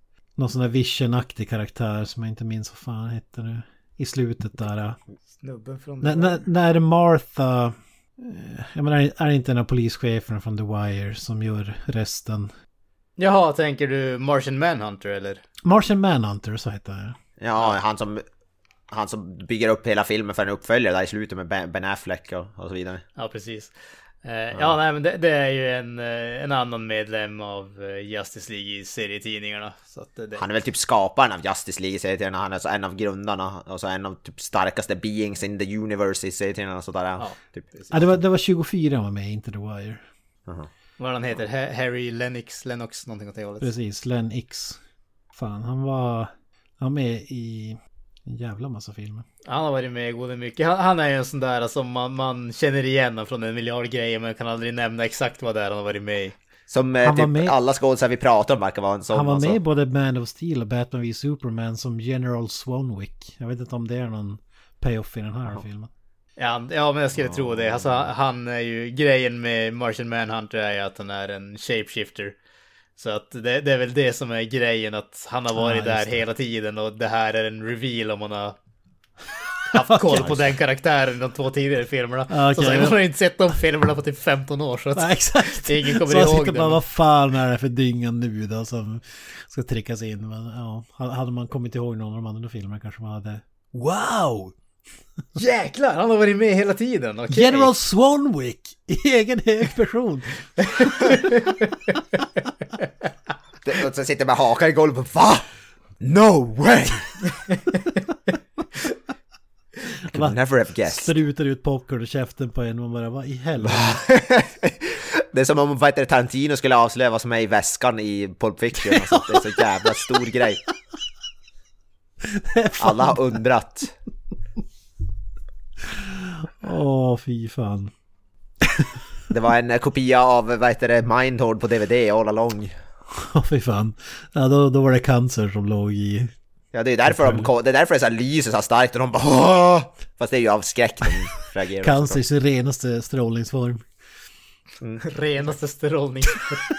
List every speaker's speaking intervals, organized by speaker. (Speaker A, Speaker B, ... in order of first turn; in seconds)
Speaker A: 0.4-5.0, 6.0-12.5, 15.6-17.2, 37.9-40.0, 43.6-44.8, 45.3-49.2, 57.0-57.5, 59.1-65.9, 75.5-76.2, 82.3-83.0, 85.0-94.5, 97.3-100.9, 110.1-114.0, 118.8-119.3, 122.2-123.2, 125.8-127.9, 128.6-129.0, 133.1-136.3, 137.1-137.5, 141.8-143.8
Speaker B: 5.4-6.4, 13.2-15.4, 23.2-30.4, 37.2-37.9, 41.0-43.7, 49.5-56.4, 66.4-72.4, 73.0-78.6, 79.7-86.8, 95.3-97.7, 100.6-102.0, 145.0-146.6
Speaker C: 17.4-18.2, 18.9-23.0, 30.4-38.1, 56.7-59.6, 67.2-68.1, 80.2-80.5, 103.6-105.5, 106.0-107.2, 110.1-111.1, 113.6-120.6, 122.8-123.9, 129.3-132.8, 136.7-142.2, 144.8-145.1